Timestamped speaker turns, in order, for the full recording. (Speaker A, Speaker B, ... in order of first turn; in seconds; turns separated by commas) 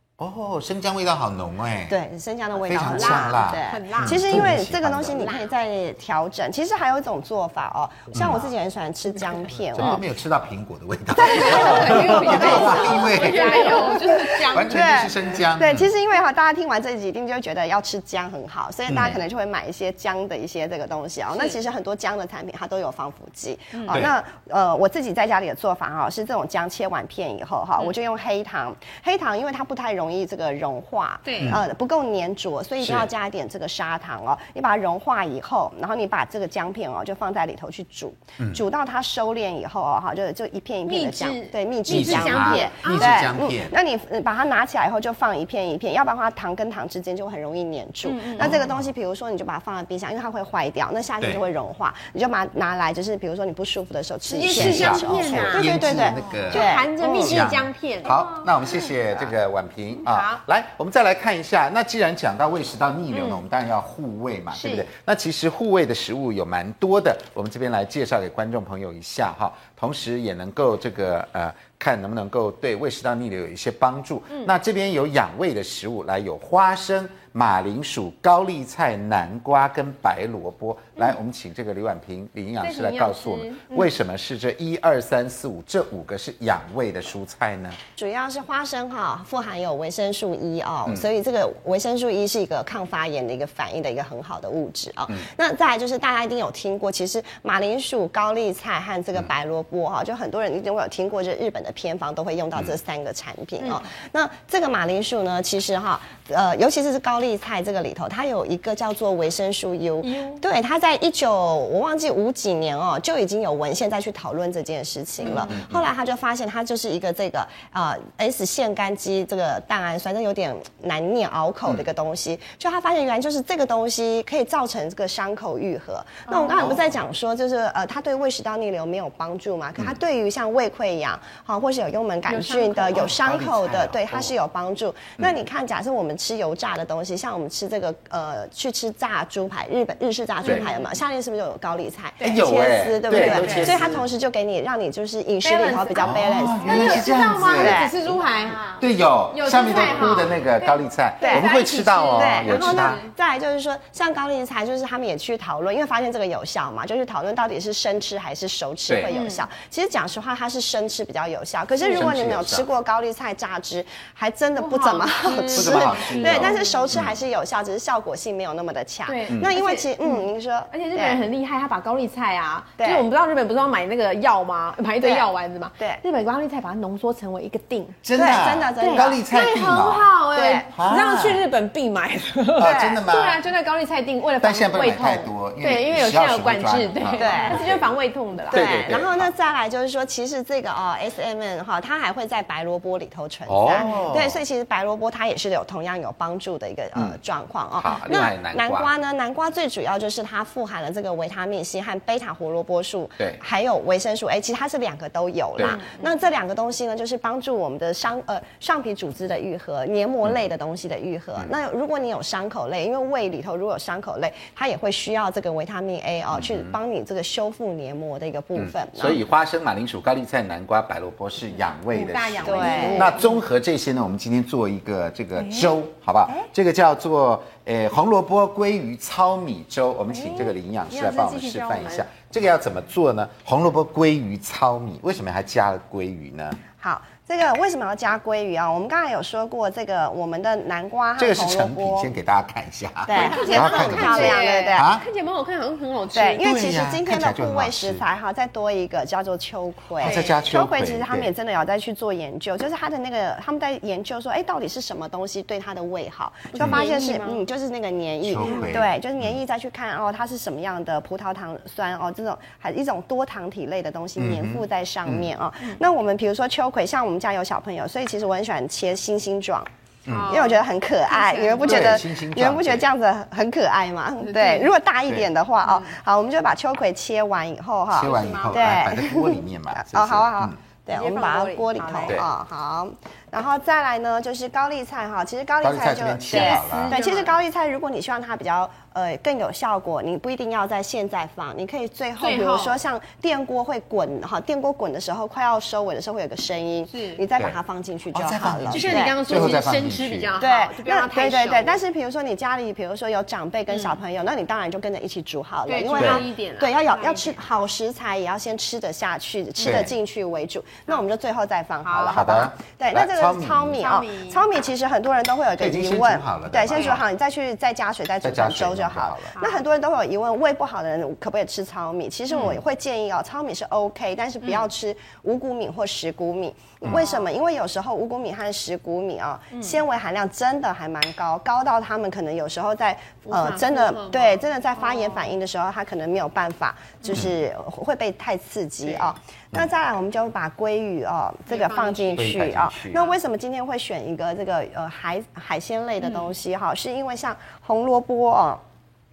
Speaker A: 0.2-2.0, Speaker B: 1.9-10.0, Speaker A: 2.6-5.3, Speaker C: 2.8-4.3, Speaker C: 5.2-5.5, Speaker A: 8.1-8.5, Speaker A: 9.7-15.9, Speaker C: 11.2-15.1, Speaker B: 11.3-14.2, Speaker B: 14.7-57.4, Speaker A: 18.9-19.2, Speaker C: 21.3-21.6, Speaker C: 23.7-24.0, Speaker C: 31.2-31.6, Speaker A: 32.8-33.1, Speaker C: 40.8-43.3, Speaker A: 41.9-43.7, Speaker C: 48.0-48.6, Speaker A: 48.4-48.9, Speaker C: 54.3-58.9, Speaker A: 54.4-87.8, Speaker C: 60.0-60.4, Speaker C: 63.1-63.4, Speaker C: 64.5-64.9, Speaker C: 74.3-74.5, Speaker C: 82.6-83.9, Speaker B: 88.0-148.2, Speaker C: 103.6-103.8, Speaker C: 110.0-110.4, Speaker C: 115.2-115.5, Speaker A: 115.3-115.9, Speaker C: 126.3-126.7, Speaker A: 126.5-126.9, Speaker C: 132.3-133.2, Speaker A: 132.9-134.3, Speaker C: 140.4-140.9, Speaker C: 142.2-142.5, Speaker A: 142.2-144.1, Speaker C: 143.1-143.8, Speaker C: 145.4-153.1, Speaker A: 146.0-147.9, Speaker A: 148.7-153.0, Speaker B: 151.2-151.5, Speaker B: 152.1-171.2, Speaker A: 158.9-159.1, Speaker C: 159.1-159.4, Speaker C: 161.8-162.1, Speaker A: 161.9-162.7, Speaker C: 164.6-166.8, Speaker A: 165.5-167.2, Speaker C: 169.1-178.0, Speaker B: 172.8-173.1, Speaker B: 175.0-176.0, Speaker A: 178.0-180.1, Speaker B: 178.2-179.2, Speaker C: 178.8-188.9, Speaker B: 180.3-180.7, Speaker A: 180.7-181.4, Speaker A: 182.6-183.4, Speaker B: 182.6-183.0, Speaker A: 184.4-187.9, Speaker B: 187.2-187.7, Speaker B: 188.5-219.2, Speaker A: 188.5-189.3, Speaker A: 193.5-194.4, Speaker A: 197.8-198.9, Speaker C: 205.6-206.1, Speaker A: 216.3-216.8, Speaker A: 218.6-236.6, Speaker C: 221.9-223.4, Speaker B: 222.4-223.2, Speaker C: 225.4-225.7, Speaker C: 230.1-232.1, Speaker B: 236.8-242.1, Speaker A: 241.2-245.1, Speaker B: 243.1-244.9, Speaker C: 243.1-246.4, Speaker B: 246.1-269.7, Speaker A: 246.4-248.0, Speaker A: 250.0-251.3, Speaker C: 250.0-250.3, Speaker C: 256.5-257.4, Speaker A: 256.6-256.8, Speaker A: 258.2-259.4, Speaker C: 258.4-258.8, Speaker A: 264.2-265.3, Speaker A: 270.1-270.4, Speaker C: 270.1-272.0, Speaker B: 270.3-299.6, Speaker A: 271.6-272.9, Speaker C: 274.2-274.8, Speaker C: 275.6-276.0, Speaker A: 277.9-280.6, Speaker C: 278.0-278.8, Speaker C: 280.9-282.2, Speaker A: 285.6-287.0, Speaker C: 286.3-287.4, Speaker C: 292.2-292.8, Speaker C: 296.9-297.2, Speaker A: 298.1-300.3, Speaker C: 298.7-301.8, Speaker B: 300.4-348.6, Speaker C: 303.7-304.0, Speaker C: 305.7-307.4, Speaker A: 306.0-306.2, Speaker C: 309.6-309.9, Speaker A: 309.6-309.9, Speaker C: 311.8-312.2, Speaker A: 312.1-313.8, Speaker C: 313.8-314.4, Speaker A: 315.6-317.1, Speaker C: 316.7-317.0, Speaker A: 318.2-319.3, Speaker C: 319.4-319.6, Speaker C: 324.4-324.7, Speaker C: 326.9-327.3, Speaker C: 329.5-329.8, Speaker C: 333.2-335.3, Speaker C: 337.0-337.3, Speaker C: 338.8-339.1, Speaker C: 341.5-343.2, Speaker A: 342.2-343.0, Speaker C: 346.0-346.3